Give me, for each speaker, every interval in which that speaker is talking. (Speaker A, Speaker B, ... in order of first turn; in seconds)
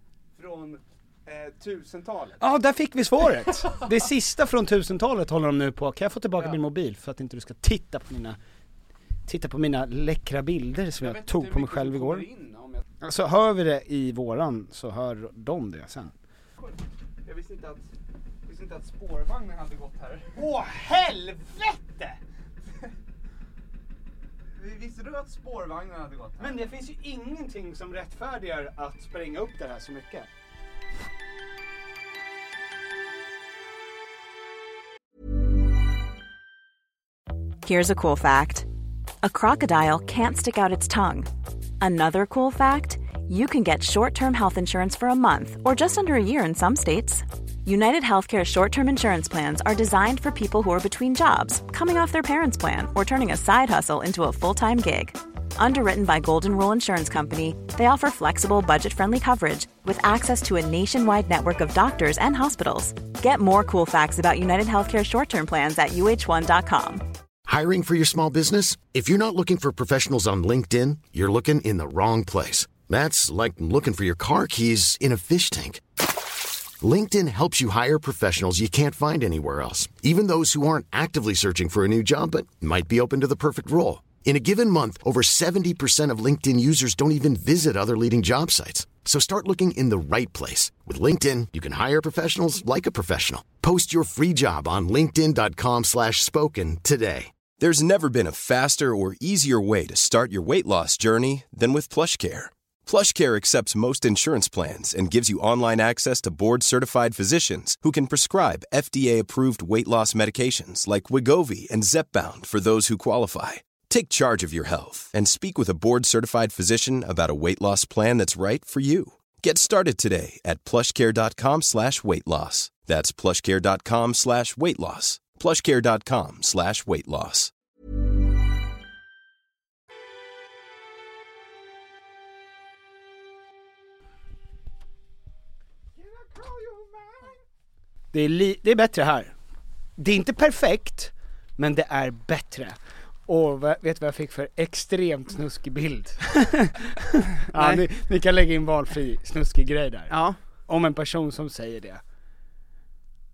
Speaker A: 0.3-2.4, 11.0-12.8, 17.2-17.9, 18.4-20.3, 24.5-26.6, 136.0-137.3, 147.5-147.8, 150.1-150.4
Speaker B: 2.4-8.4, 9.2-12.2, 13.0-16.1, 20.3-22.2, 26.4-30.3, 138.1-139.3, 140.0-150.1, 150.7-152.0
Speaker C: 37.6-38.7, 39.2-67.0
Speaker D: 67.4-75.8, 76.8-97.3
Speaker E: 97.6-127.5